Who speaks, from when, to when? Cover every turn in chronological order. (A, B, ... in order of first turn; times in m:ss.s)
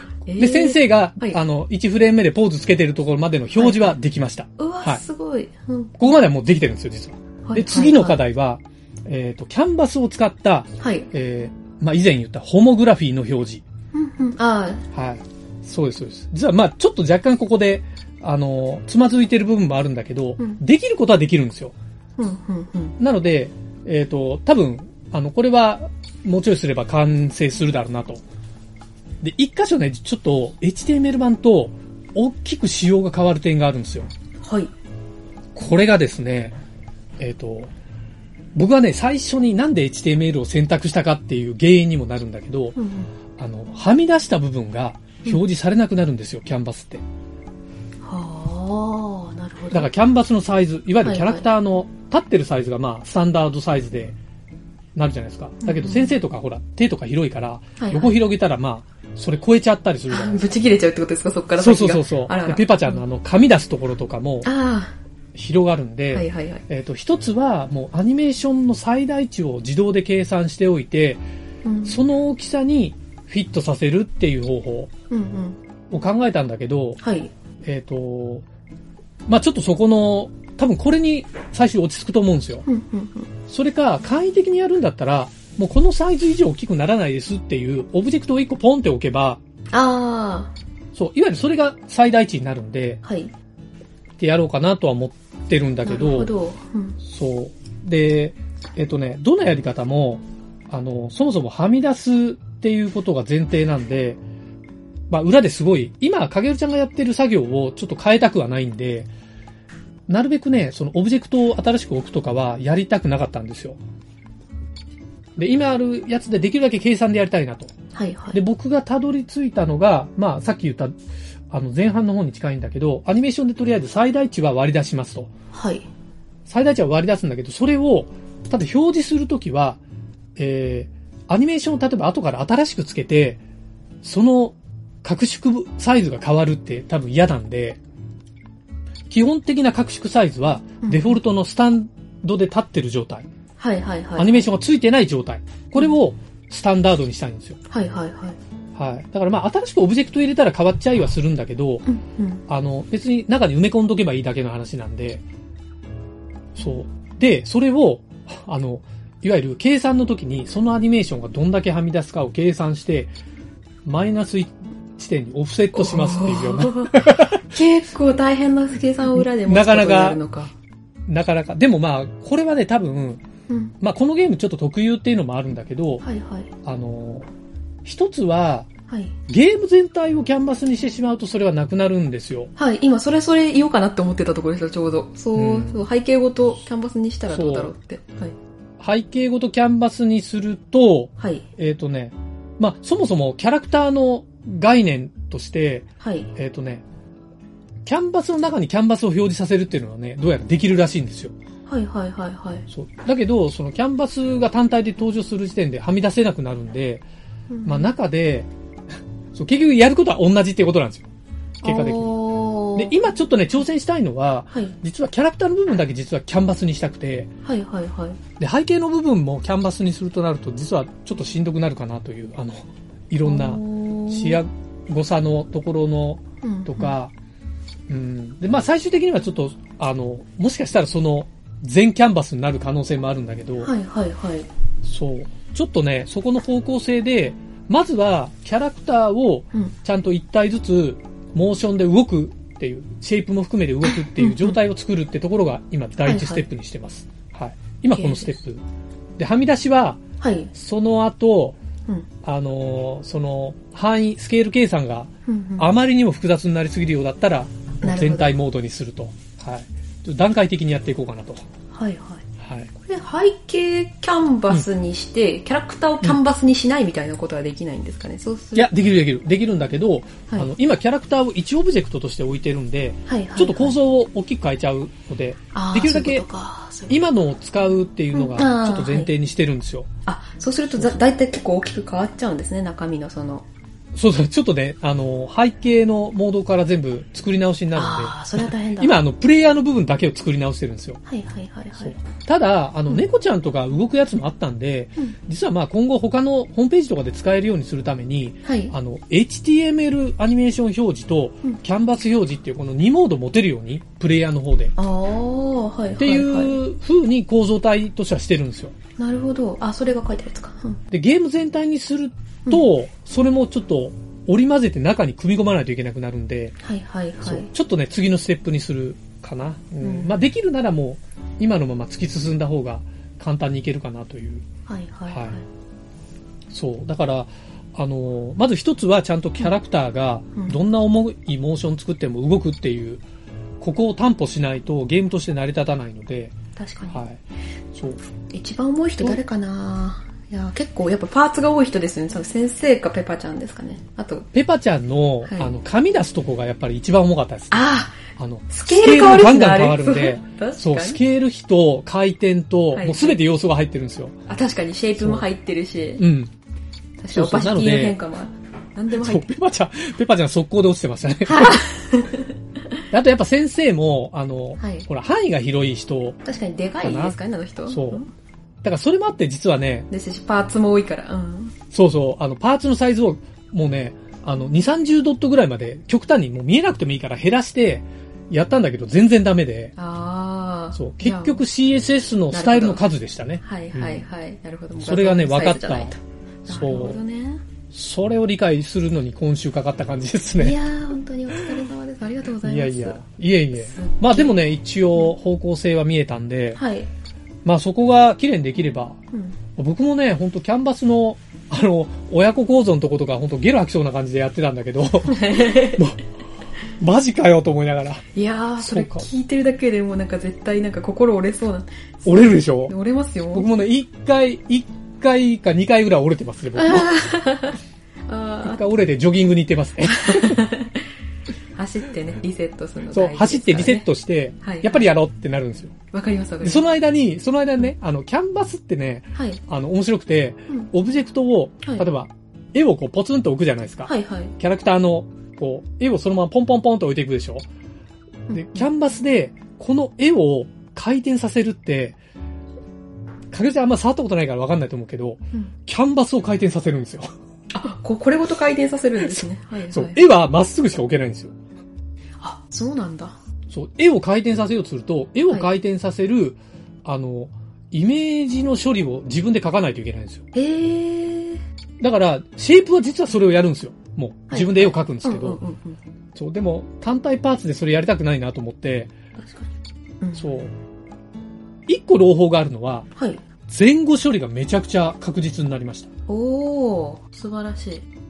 0:00.2-0:01.4 A
0:00.4-0:05.0 B
0:03.6-0:04.0 A
0:04.6-0:06.0 A
0:06.0-0:13.6 B
0:07.4-0:08.2 A
0:10.8-0:11.1 A
0:13.9-0:14.9 A
0:14.9-0:21.8 B
0:22.2-0:23.0 A
0:23.0-0:28.2 B
0:29.2-0:34.1 B
0:34.4-0:34.7 A
0:35.6-0:36.6 B
0:37.2-0:37.7 B
0:38.6-0:42.8 B
0:42.8-0:43.1 A
0:43.4-0:47.0 B
0:48.0-0:49.9 A
0:49.7-0:54.2 B
0:51.0-0:51.5 A
0:55.0-1:00.5 B
0:55.6-0:56.2 A
0:57.8-0:58.2 A
1:00.1-1:03.0 A
1:01.6-1:04.5 B
1:04.4-1:05.0 A
1:05.4-1:11.2 B
1:06.1-1:06.6 A
1:11.6-1:12.0 A
1:11.8-1:14.9 B
1:15.1-1:15.6 A
1:15.9-1:17.0 B
1:17.0-1:17.3 A
1:17.6-1:18.4 B
1:19.3-1:22.6 B
1:22.7-1:23.3 A
1:23.5-1:29.4 B
1:29.7-1:30.5 A
1:30.9-1:33.0 B
1:33.0-1:33.3 A
1:34.2-1:36.3 B
1:35.8-1:37.0 A
1:37.0-1:44.2 B
1:45.1-1:49.1 B
1:50.1-1:53.8 B
1:55.4-1:57.7 B
1:57.9-1:58.4 A
1:58.3-2:01.0 B
2:01.5-2:05.3 B
2:05.5-2:05.9 A
2:06.5-2:09.8 B
2:10.4-2:13.4 B
2:14.0-2:17.8 B
2:19.1-2:23.3 B
2:20.8-2:21.2 A
2:23.6-2:24.5 A
2:24.2-2:27.6 B
2:27.7-2:28.4 A
2:28.8-2:31.9 B
2:31.9-2:32.4 A
2:32.5-2:35.2 B
2:36.6-2:43.1 B
2:43.8-2:47.4 B
2:45.8-2:50.5 A
2:49.1-2:50.2 B
2:51.1-2:53.2 B
2:53.5-2:53.7 A
2:53.8-2:56.0 B
2:56.0-2:56.5 A
2:56.6-2:57.3 B
2:57.8-2:58.7 B
2:58.9-2:59.2 A
2:59.3-3:02.5 B
3:02.6-3:08.3 A
3:05.4-3:05.8 B
3:07.3-3:07.7 B
3:08.8-3:16.8 B
3:11.2-3:11.4 A
3:16.0-3:16.3 A
3:17.8-3:21.4 B
3:21.7-3:22.6 A
3:22.7-3:27.0 B
3:27.5-3:27.9 A
3:27.6-3:28.5 B
3:29.3-3:31.1 B
3:31.6-3:32.2 B
3:31.6-3:32.9 A
3:32.8-3:37.3 B
3:37.4-3:38.2 A
3:38.4-3:47.1 B
3:43.2-3:44.4 A
3:46.4-3:47.0 A
3:47.9-3:53.7 B
3:53.6-3:54.5 A
3:54.8-4:08.6 B
4:04.2-4:04.6 A
4:06.0-4:06.4 A
4:07.9-4:08.3 A
4:09.2-4:10.0 B
4:10.2-4:10.5 A
4:10.5-4:11.6 B
4:12.2-4:21.4 B
4:15.3-4:15.7 A
4:17.8-4:18.3 A
4:21.7-4:22.2 A
4:22.4-4:22.7 B
4:22.8-4:28.7 A
4:28.6-4:36.2 B
4:33.1-4:33.8 A
4:35.5-4:37.0 A
4:36.9-4:39.9 B
4:38.1-4:39.1 A
4:40.1-4:43.5 A
4:40.7-4:41.0 B
4:43.9-4:51.0 B
4:47.7-4:49.0 A
4:51.1-4:52.0 A
4:51.8-5:04.7 B
4:58.4-4:58.7 A
5:04.8-5:06.6 A
5:06.0-5:08.8 B
5:09.0-5:10.8 A
5:10.9-5:16.6 B
5:16.6-5:17.5 A
5:17.2-5:24.5 B
5:19.8-5:20.2 A
5:24.7-5:25.4 A
5:25.1-5:25.4 B
5:26.5-5:33.0 B
5:33.6-5:36.4 B
5:36.6-5:37.0 A
5:36.9-5:37.2 B
5:37.7-5:38.0 B
5:38.3-5:44.3 A
5:44.3-5:54.2 B
5:45.2-5:45.5 A
5:47.5-5:51.0 A
5:52.7-5:53.2 A
5:54.3-5:56.1 A
5:55.0-5:55.3 B
5:56.0-5:56.3 B
5:57.0-5:59.3 A
5:57.1-5:58.0 B
5:58.9-6:01.6 B
6:01.3-6:02.3 A
6:02.9-6:06.2 B
6:04.6-6:04.9 A
6:06.2-6:08.1 A
6:06.8-6:08.0 B
6:08.6-6:09.9 B
6:09.9-6:11.6 A
6:11.7-6:19.7 B
6:19.8-6:21.4 A
6:20.8-6:24.1 B
6:22.3-6:22.8 A
6:23.4-6:27.4 A
6:24.8-6:26.0 B
6:26.5-6:27.0 B
6:27.7-6:30.6 B
6:30.4-6:33.0 A
6:32.4-6:36.6 B
6:33.6-6:34.4 A
6:36.6-6:36.9 A
6:37.4-6:39.0 B
6:39.1-6:39.4 A
6:39.6-6:46.0 B
6:45.1-6:45.8 A
6:46.8-6:48.0 B
6:48.1-6:53.5 A
6:48.6-6:49.1 B
6:52.1-6:52.8 B
6:53.3-6:57.1 B
6:56.6-6:58.6 A
6:58.4-7:00.4 B
6:59.9-7:00.8 A
7:01.5-7:03.9 A
7:02.9-7:05.8 B
7:04.4-7:04.8 A
7:05.9-7:06.6 A
7:06.4-7:17.5 B
7:09.2-7:09.4 A
7:13.9-7:14.3 A
7:18.3-7:18.7 A
7:18.3-7:22.0 B
7:23.3-7:27.1 B
7:27.5-7:30.0 A
7:29.0-7:31.4 B
7:32.2-7:33.2 A
7:33.5-7:40.2 B
7:40.3-7:41.4 A
7:41.8-7:45.4 B
7:44.3-7:45.8 A
7:46.2-7:48.9 B
7:49.2-7:49.5 A
7:50.0-7:50.5 A
7:50.2-7:50.5 B
7:51.7-7:52.9 B
7:53.5-7:55.9 B
7:56.1-7:57.9 A